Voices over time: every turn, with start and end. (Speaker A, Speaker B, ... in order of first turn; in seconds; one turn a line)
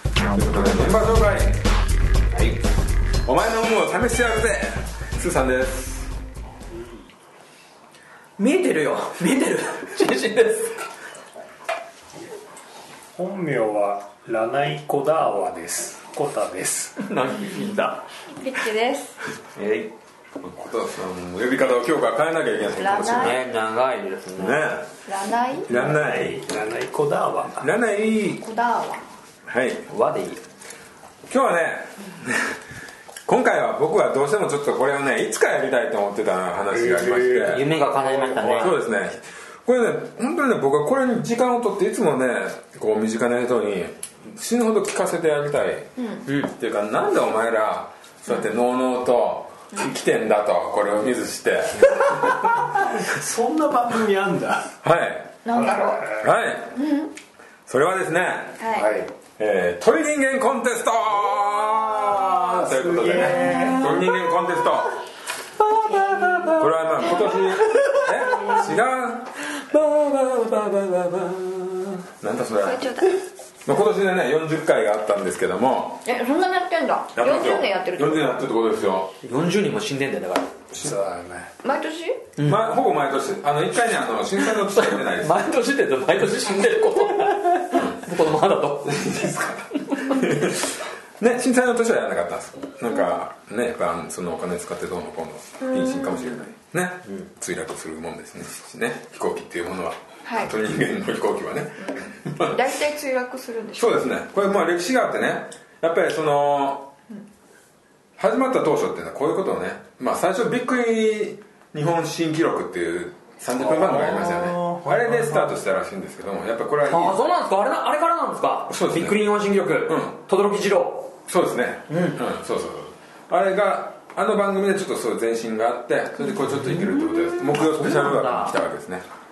Speaker A: 0.3-1.6
Speaker A: 3.2-6.1
Speaker B: 6.7-7.1
Speaker C: 8.4-10.8
Speaker B: 13.2-17.0
Speaker C: 17.0-18.0
Speaker D: 18.3-19.2
Speaker C: 19.6-19.9
Speaker A: 20.4-23.4
Speaker D: 22.8-23.4
Speaker C: 23.1-24.6
Speaker A: 24.4-24.9
Speaker D: 25.1-25.7
Speaker A: 25.7-26.5
Speaker B: 25.7-27.7
Speaker A: 27.6-28.4
Speaker D: 28.4-29.0
Speaker A: 29.5-29.9
Speaker C: 29.9-30.4
Speaker A: 31.3-32.6
Speaker A: 33.3-37.7
Speaker B: 36.7-38.8
Speaker C: 37.4-38.8
Speaker A: 38.6-52.7
Speaker D: 46.0-46.2
Speaker B: 52.0-54.7
Speaker A: 54.8-55.4
Speaker D: 55.4-56.2
Speaker B: 55.5-56.3
Speaker A: 56.2-56.8
Speaker D: 56.8-57.1
Speaker A: 57.7-58.6
Speaker D: 58.6-58.9
Speaker B: 58.8-59.1
Speaker A: 59.4-64.9
Speaker B: 62.1-64.0
Speaker C: 63.4-63.7
Speaker C: 65.6-68.7
Speaker B: 65.9-66.3
Speaker A: 66.6-69.3
Speaker C: 69.5-72.0
Speaker A: 72.2-72.9
Speaker D: 72.6-73.2
Speaker A: 73.7-76.0
Speaker D: 76.0-78.3
Speaker A: 77.1-79.1
Speaker C: 79.2-80.5
Speaker B: 80.8-81.5
Speaker D: 81.6-82.2
Speaker A: 82.4-85.4
Speaker C: 84.5-89.3
Speaker A: 88.8-102.6
Speaker D: 95.6-96.4
Speaker D: 100.2-100.5
Speaker D: 101.8-104.1
Speaker A: 103.8-106.9
Speaker A: 108.2-117.2
Speaker B: 113.5-115.6
Speaker C: 116.9-121.2
Speaker A: 118.7-119.2
Speaker A: 119.9-120.2
Speaker A: 121.3-129.1
Speaker C: 121.9-122.2
Speaker C: 126.7-128.6